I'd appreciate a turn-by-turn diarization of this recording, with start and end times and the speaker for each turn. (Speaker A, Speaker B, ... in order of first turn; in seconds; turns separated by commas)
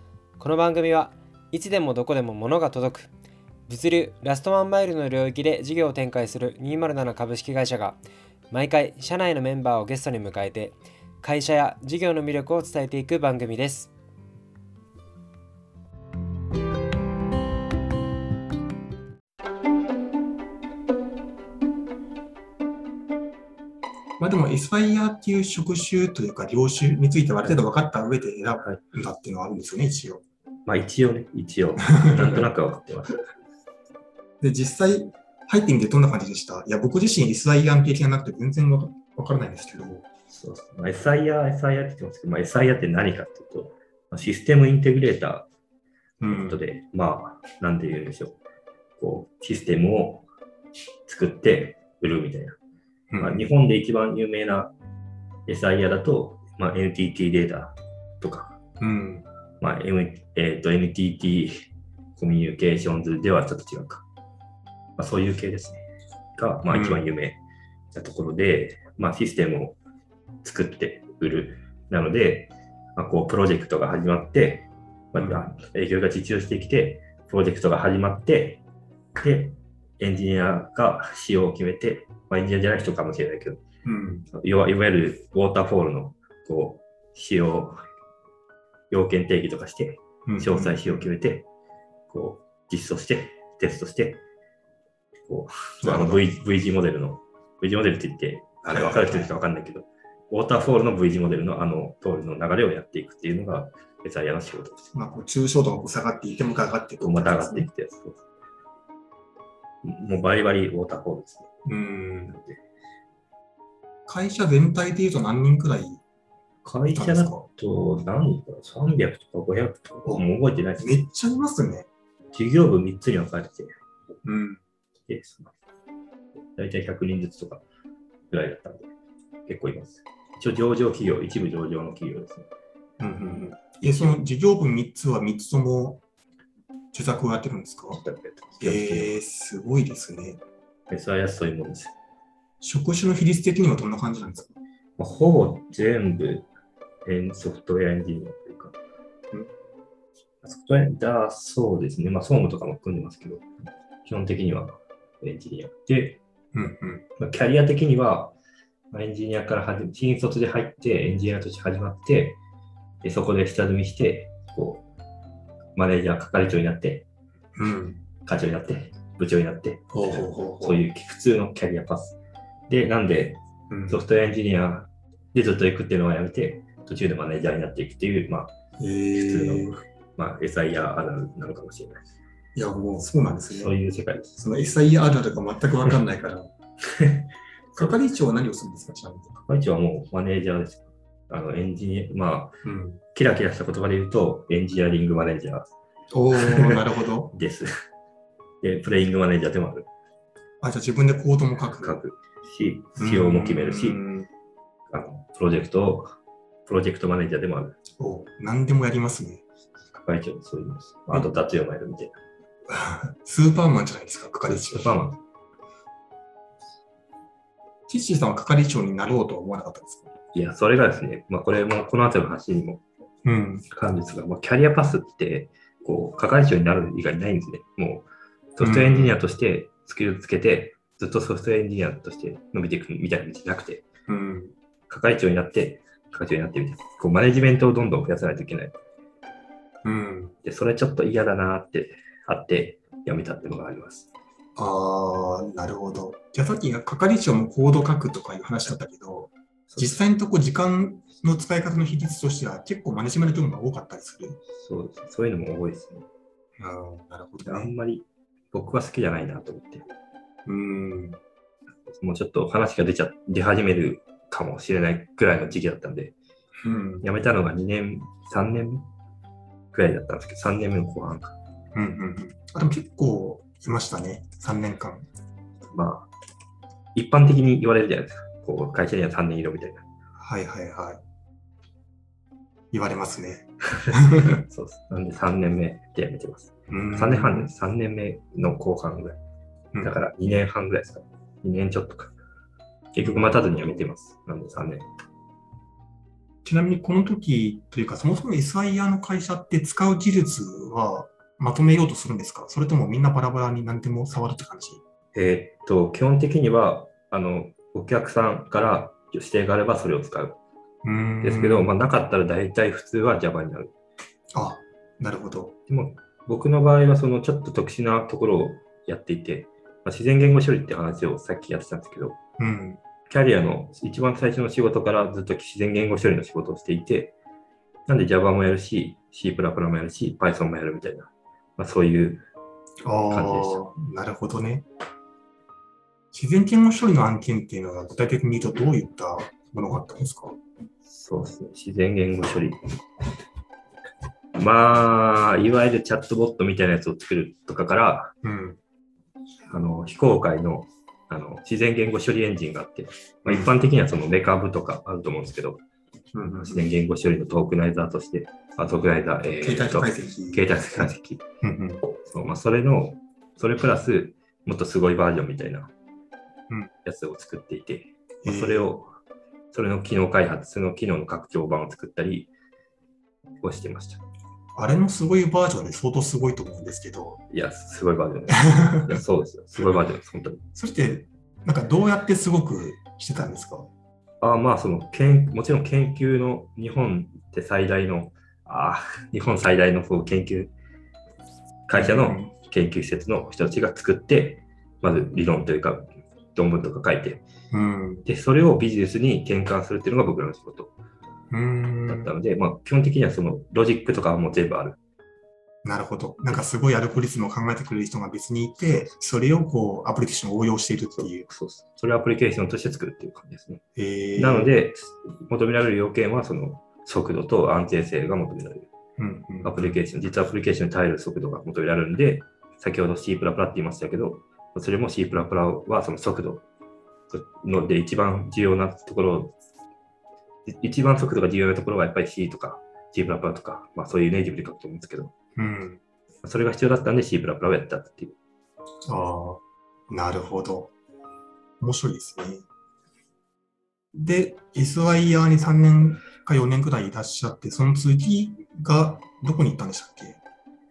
Speaker A: 0.4-3.1, Speaker A: 3.7-8.0, Speaker A: 8.5-13.9, Speaker B: 24.2-30.2, Speaker C: 30.7-33.2, Speaker B: 31.9-32.5, Speaker B: 34.4-40.0, Speaker C: 40.3-45.5, Speaker B: 46.2-46.6, Speaker C: 46.2-48.4, Speaker C: 49.0-50.3, Speaker C: 51.1-52.6, Speaker B: 53.1-53.5, Speaker C: 53.2-54.7, Speaker C: 55.5-58.6, Speaker B: 58.8-59.3, Speaker C: 59.6-61.5, Speaker C: 62.2-64.0, Speaker C: 65.0-65.8, Speaker C: 66.4-67.4, Speaker B: 66.7-67.0, Speaker C: 67.9-69.8, Speaker C: 70.4-78.6, Speaker B: 75.2-75.5, Speaker C: 79.2-83.6, Speaker B: 83.8-84.3, Speaker C: 84.3-87.8, Speaker C: 88.9-91.5, Speaker B: 90.3-91.1, Speaker C: 92.1-94.2, Speaker C: 95.3-104.9, Speaker B: 95.8-96.2, Speaker B: 98.7-99.3, Speaker B: 104.9-107.7, Speaker C: 107.0-108.2, Speaker C: 109.8-111.5, Speaker B: 111.7-112.4, Speaker C: 112.3-112.6, Speaker B: 114.1-116.0, Speaker C: 116.7-121.0, Speaker B: 116.9-117.4, Speaker B: 120.8-121.9, Speaker C: 122.3-123.7, Speaker B: 124.2-124.6, Speaker C: 125.1-125.5, Speaker C: 126.5-127.6, Speaker C: 128.3-128.9, Speaker C: 129.5-132.5, Speaker B: 133.0-136.0, Speaker C: 133.7-134.2, Speaker B: 136.9-138.0, Speaker C: 137.9-139.2, Speaker B: 138.6-140.4, Speaker C: 140.9-141.9, Speaker B: 142.6-144.5, Speaker C: 145.0-146.5, Speaker C: 147.1-148.8, Speaker C: 150.4-153.4, Speaker C: 154.1-156.2, Speaker B: 156.5-157.0, Speaker C: 157.2-158.3, Speaker C: 158.9-162.4, Speaker C: 163.0-164.9, Speaker C: 165.8-167.1, Speaker B: 167.6-168.0, Speaker C: 168.3-172.2, Speaker B: 169.9-170.8, Speaker C: 172.7-178.5, Speaker B: 173.7-174.0, Speaker B: 178.8-179.8, Speaker C: 179.2-182.0, Speaker B: 182.6-183.7, Speaker C: 183.5-184.4, Speaker B: 184.4-186.5, Speaker C: 187.0-187.9, Speaker B: 187.8-189.4, Speaker C: 189.5-192.6, Speaker B: 192.6-193.0, Speaker C: 193.1-195.7, Speaker B: 196.1-197.3, Speaker C: 196.4-197.7, Speaker C: 198.6-199.9, Speaker B: 200.6-202.0, Speaker C: 201.5-204.0, Speaker B: 203.0-204.3, Speaker C: 204.9-207.8, Speaker B: 208.0-209.4, Speaker C: 209.9-212.2, Speaker B: 212.7-215.0, Speaker C: 214.4-215.2, Speaker B: 217.9-220.1, Speaker C: 220.3-222.8, Speaker B: 223.2-223.7, Speaker C: 223.7-233.8, Speaker B: 228.6-229.2, Speaker B: 234.1-234.5, Speaker C: 234.9-238.8, Speaker B: 239.8-240.3, Speaker C: 240.4-244.1, Speaker B: 244.6-254.4, Speaker C: 249.7-250.0, Speaker C: 254.6-256.1, Speaker B: 256.6-257.7, Speaker C: 257.4-259.9, Speaker B: 260.5-261.2, Speaker C: 261.9-266.1, Speaker B: 266.6-267.1, Speaker C: 267.0-268.9, Speaker C: 269.7-271.4, Speaker B: 271.8-275.1, Speaker C: 275.7-276.1, Speaker C: 276.9-279.9, Speaker B: 280.2-281.0, Speaker B: 282.7-284.4, Speaker C: 284.5-289.2, Speaker B: 286.7-287.5, Speaker C: 289.8-292.1, Speaker C: 292.9-294.9, Speaker B: 293.0-293.8, Speaker B: 296.4-304.8, Speaker C: 305.1-310.4, Speaker B: 310.8-311.7, Speaker C: 311.2-313.7, Speaker B: 314.3-315.6, Speaker C: 315.7-322.2, Speaker B: 322.4-322.8, Speaker C: 323.1-327.1, Speaker C: 327.9-332.3, Speaker B: 332.8-334.7, Speaker C: 333.1-333.7, Speaker B: 336.1-340.4, Speaker C: 340.9-342.6, Speaker C: 344.4-348.1, Speaker B: 348.2-348.6, Speaker C: 349.5-355.6, Speaker B: 353.2-353.5, Speaker B: 356.1-356.6, Speaker C: 356.4-361.2, Speaker B: 359.4-360.9, Speaker B: 361.4-361.8, Speaker C: 362.0-365.7, Speaker C: 366.9-368.9, Speaker B: 368.2-368.7, Speaker C: 369.5-372.3, Speaker C: 373.4-374.0, Speaker B: 374.6-377.2, Speaker C: 377.3-380.4, Speaker B: 378.6-379.0, Speaker B: 380.6-383.7, Speaker C: 384.2-390.5, Speaker C: 391.7-397.2, Speaker B: 391.7-392.3, Speaker B: 397.5-398.1, Speaker C: 398.1-400.7, Speaker B: 401.3-402.1, Speaker C: 401.9-404.8, Speaker B: 405.6-411.3, Speaker C: 411.0-413.6, Speaker B: 413.8-414.5, Speaker C: 414.2-418.7, Speaker B: 419.0-419.8, Speaker C: 419.4-426.4, Speaker C: 427.1-429.3, Speaker C: 430.5-435.1, Speaker B: 435.4-435.8, Speaker C: 436.2-438.1, Speaker B: 438.9-440.7, Speaker B: 441.6-442.5, Speaker B: 443.9-450.2